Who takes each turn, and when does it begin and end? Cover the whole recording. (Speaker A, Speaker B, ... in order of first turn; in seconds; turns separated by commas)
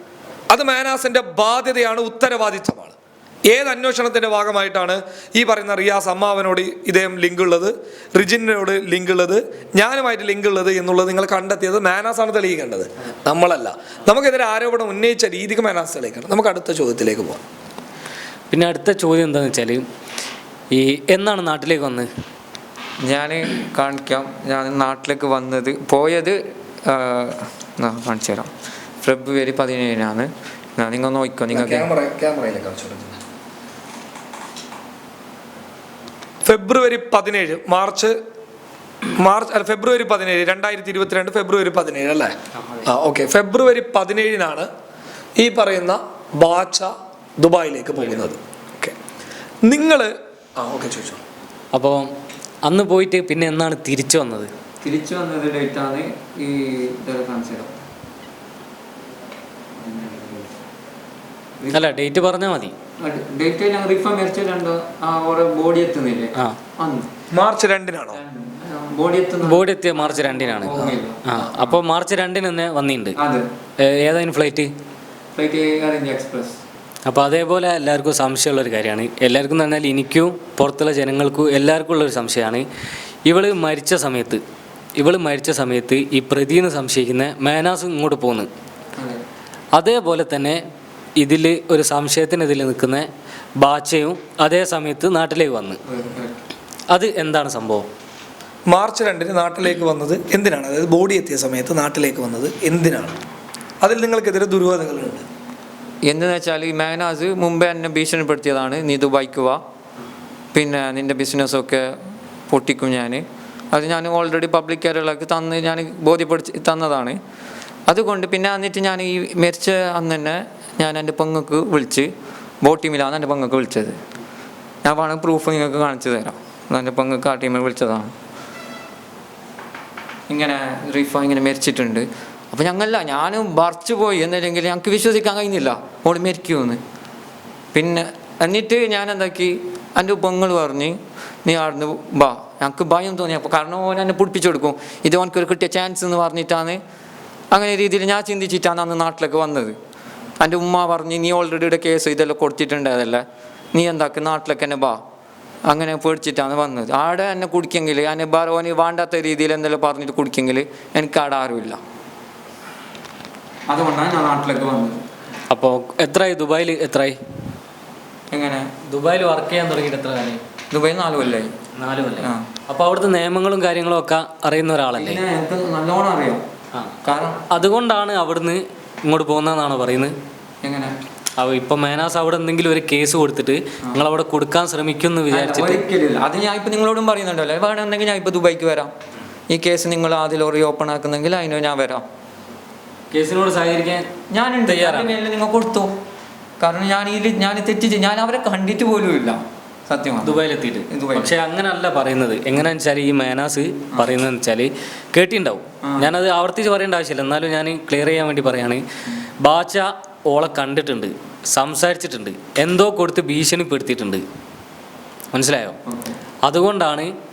Speaker A: 0.5-2.9, Speaker A: 3.5-17.4, Speaker B: 18.5-19.9, Speaker B: 20.7-22.1, Speaker C: 23.0-28.5, Speaker C: 29.0-31.9, Speaker A: 31.5-33.2, Speaker A: 36.4-38.1, Speaker A: 39.1-44.7, Speaker A: 45.4-48.9, Speaker A: 49.6-51.2, Speaker B: 51.7-52.1, Speaker B: 52.6-54.5, Speaker C: 54.8-57.7, Speaker C: 59.8-60.5, Speaker B: 61.7-62.7, Speaker C: 63.0-67.1, Speaker A: 67.3-68.2, Speaker C: 68.2-71.3, Speaker B: 69.4-73.2, Speaker C: 73.2-73.5, Speaker B: 73.8-74.7, Speaker C: 75.3-76.6, Speaker B: 77.1-82.7, Speaker B: 83.2-84.4, Speaker B: 85.0-88.5, Speaker C: 89.0-89.2, Speaker B: 89.7-90.6, Speaker B: 91.2-93.1, Speaker B: 93.6-95.8, Speaker C: 95.9-96.4, Speaker B: 96.9-97.9, Speaker A: 98.7-103.2, Speaker A: 103.8-105.2, Speaker C: 106.1-109.6, Speaker C: 110.5-111.9, Speaker C: 112.5-117.2, Speaker C: 117.9-124.0, Speaker C: 124.8-128.1, Speaker C: 130.3-136.8, Speaker C: 137.7-146.8, Speaker C: 147.5-149.8, Speaker C: 150.4-155.0, Speaker C: 155.7-161.8, Speaker C: 163.7-165.0, Speaker B: 165.5-167.2, Speaker C: 168.3-168.7, Speaker B: 168.8-170.4, Speaker C: 170.7-171.5, Speaker B: 171.7-175.2, Speaker C: 172.2-172.5, Speaker C: 174.9-176.4, Speaker B: 176.7-180.2, Speaker C: 177.1-177.4, Speaker C: 180.6-180.9, Speaker B: 181.4-185.8, Speaker C: 185.3-188.9, Speaker C: 189.5-192.1, Speaker B: 193.1-194.1, Speaker C: 194.3-195.9, Speaker B: 194.7-195.1, Speaker C: 196.6-201.3, Speaker B: 200.2-208.8, Speaker C: 205.8-206.1, Speaker B: 209.4-214.2, Speaker B: 215.3-215.8, Speaker C: 215.9-216.2, Speaker B: 216.4-217.1